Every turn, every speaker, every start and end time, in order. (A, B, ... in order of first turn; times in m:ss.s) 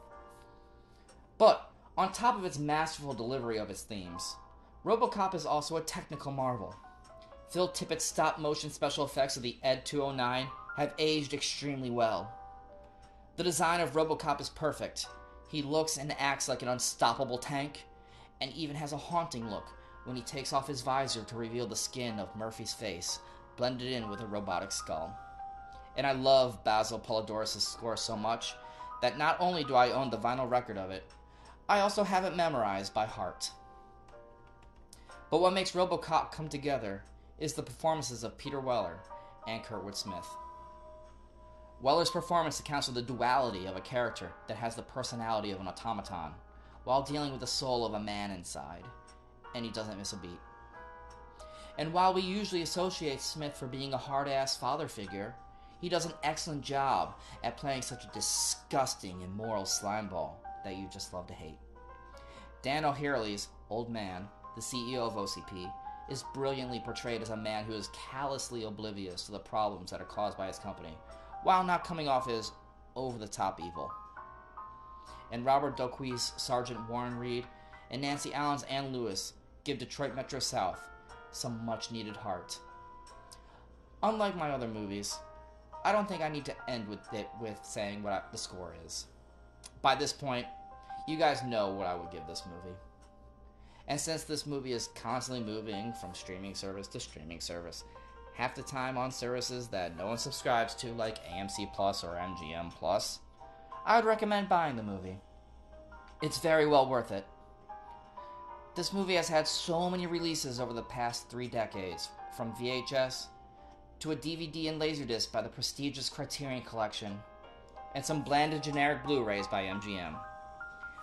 0:01.4-0:06.8 A
0:07.5-0:12.4 A
0:13.4-0:17.9 A
0:18.4-0:25.2 A
0:26.0-0:31.1 A
0:31.7-0:33.5 A
0:35.3-0:40.4 A
0:41.8-0:48.9 A
0:49.5-0:50.4 A
0:51.8-1:01.6 A
1:02.6-1:14.0 A
1:15.3-1:22.6 A
1:24.0-1:25.2 A
1:25.8-1:29.1 A
1:29.8-1:30.5 A
1:31.1-1:32.8 A
1:33.9-1:43.2 A
1:43.8-1:45.2 A
1:46.2-1:47.3 A
1:48.8-1:53.3 A
1:54.0-1:57.2 A
1:57.9-2:00.2 A